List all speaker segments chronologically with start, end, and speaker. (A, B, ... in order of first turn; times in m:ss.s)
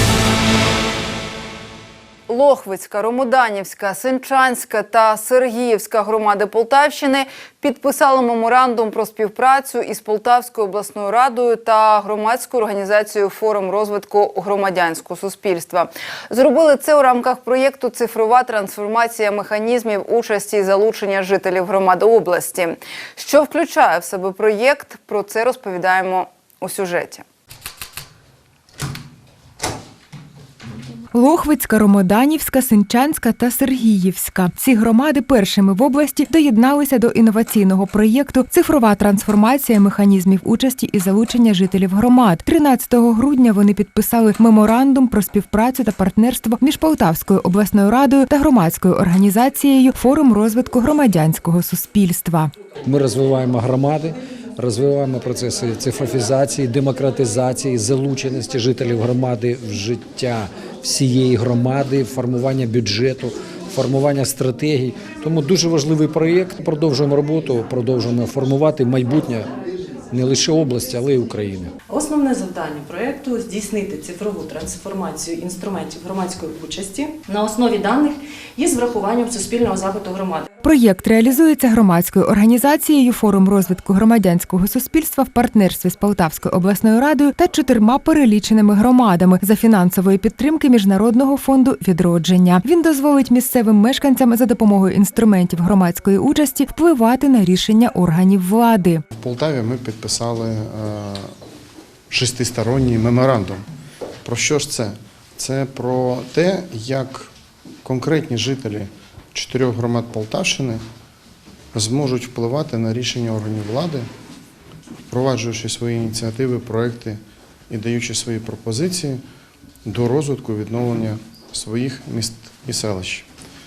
0:02.3-0:27.2 A
0:31.1-0:52.5 B
0:52.8-1:09.5 C
1:10.1-1:11.7 C
1:11.9-1:20.4 D
1:20.6-1:39.0 B
1:39.1-1:41.3 E
1:42.1-1:43.6 E
1:44.2-1:47.3 E
1:47.8-1:50.8 E
1:51.7-1:54.1 E
1:55.1-1:59.2 E
1:59.8-2:03.2 E